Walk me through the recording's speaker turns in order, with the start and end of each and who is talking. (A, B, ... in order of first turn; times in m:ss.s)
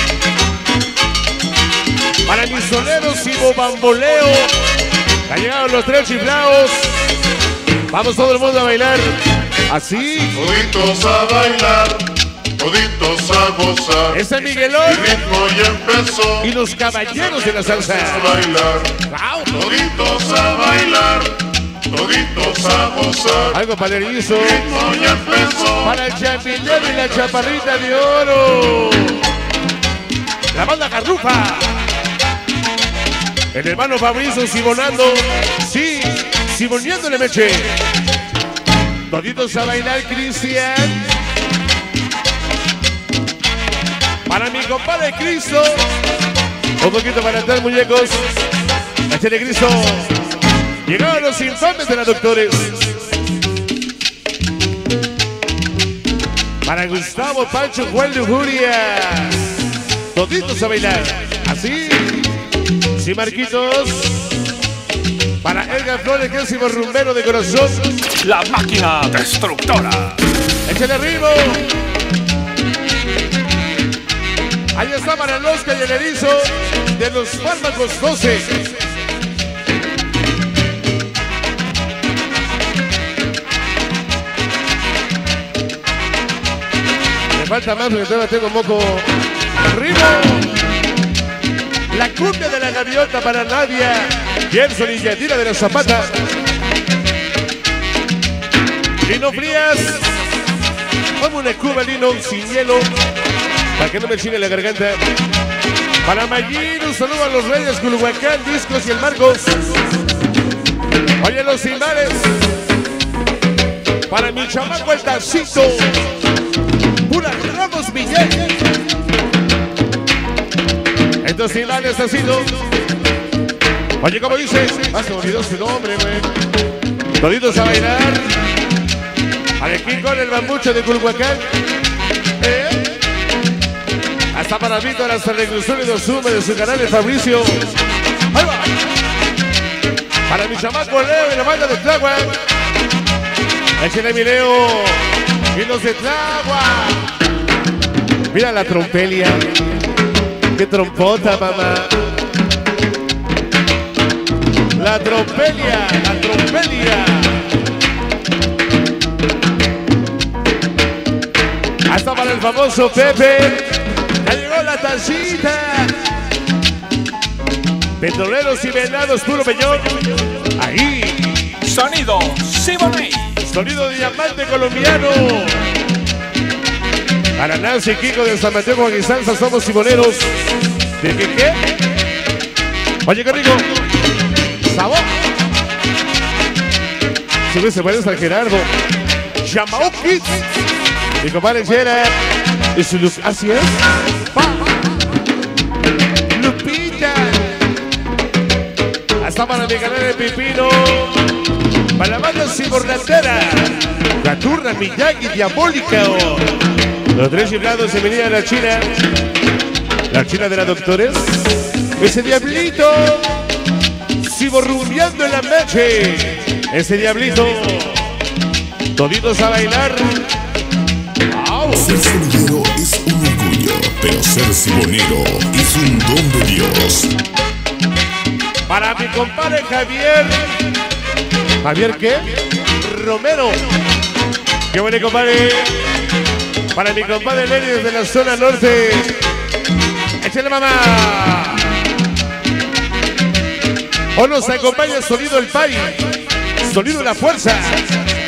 0:02.2-0:04.5 A
0:05.3-0:07.0 A
0:07.9-0:09.1 A
0:09.7-0:10.4 A
0:10.3-0:12.0 B
0:12.6-0:14.2 B
0:14.1-0:15.1 A
0:14.8-0:16.5 B
0:16.4-0:18.3 A
0:17.9-0:18.9 B
0:19.1-0:19.6 A
0:19.5-0:21.4 B
0:21.9-0:23.6 B
0:23.5-0:24.8 A
0:24.3-0:25.9 B
0:25.8-0:29.2 A
0:30.5-0:31.8 A
0:33.5-0:37.8 A
0:39.1-0:41.0 A
0:44.3-0:45.8 A
0:46.8-0:48.3 A
0:49.1-0:50.1 A
0:50.8-0:52.9 A
0:56.6-0:59.5 A
1:00.1-1:02.3 A
1:03.0-1:04.3 A
1:05.4-1:07.9 A
1:08.2-1:10.2 C
1:10.7-1:11.6 A
1:14.7-1:18.6 A
1:27.3-1:29.0 A
1:29.7-1:30.6 A
1:31.9-1:36.1 A
1:39.0-1:40.1 A
1:41.2-1:42.9 A
1:43.8-1:45.0 A
1:46.0-1:49.5 A
1:51.2-1:52.4 A
1:54.1-1:56.0 A
1:57.0-1:58.5 A
2:01.2-2:02.5 A
2:04.0-2:06.2 A
2:07.2-2:08.3 A
2:09.6-2:11.4 A
2:12.4-2:12.8 A
2:14.3-2:17.6 A
2:18.3-2:18.7 A
2:20.3-2:22.4 A
2:23.8-2:27.1 A
2:28.3-2:29.5 A
2:30.5-2:32.0 A
2:34.7-2:37.4 A
2:41.9-2:43.7 A
2:44.2-2:45.9 A
2:48.0-2:49.9 A
2:50.6-2:51.5 A
2:51.6-2:53.3 C
2:53.4-2:55.7 A
2:57.4-3:00.3 A
3:01.0-3:01.6 A
3:03.0-3:03.7 A
3:04.6-3:05.2 A
3:07.5-3:08.7 A
3:09.4-3:10.4 A
3:11.2-3:12.1 A
3:12.7-3:13.8 A
3:14.3-3:14.6 A
3:16.3-3:17.5 A
3:19.2-3:21.2 A
3:22.0-3:26.6 A
3:27.1-3:28.9 A
3:30.1-3:31.5 A
3:32.0-3:33.4 A
3:34.2-3:38.0 A
3:38.9-3:40.2 A
3:41.3-3:41.9 A
3:41.8-3:47.1 D
3:48.7-3:50.5 A
3:51.6-3:53.6 A
3:54.7-3:55.8 A
3:56.7-3:59.2 A
4:00.2-4:01.8 A
4:04.1-4:06.0 A
4:06.6-4:07.8 A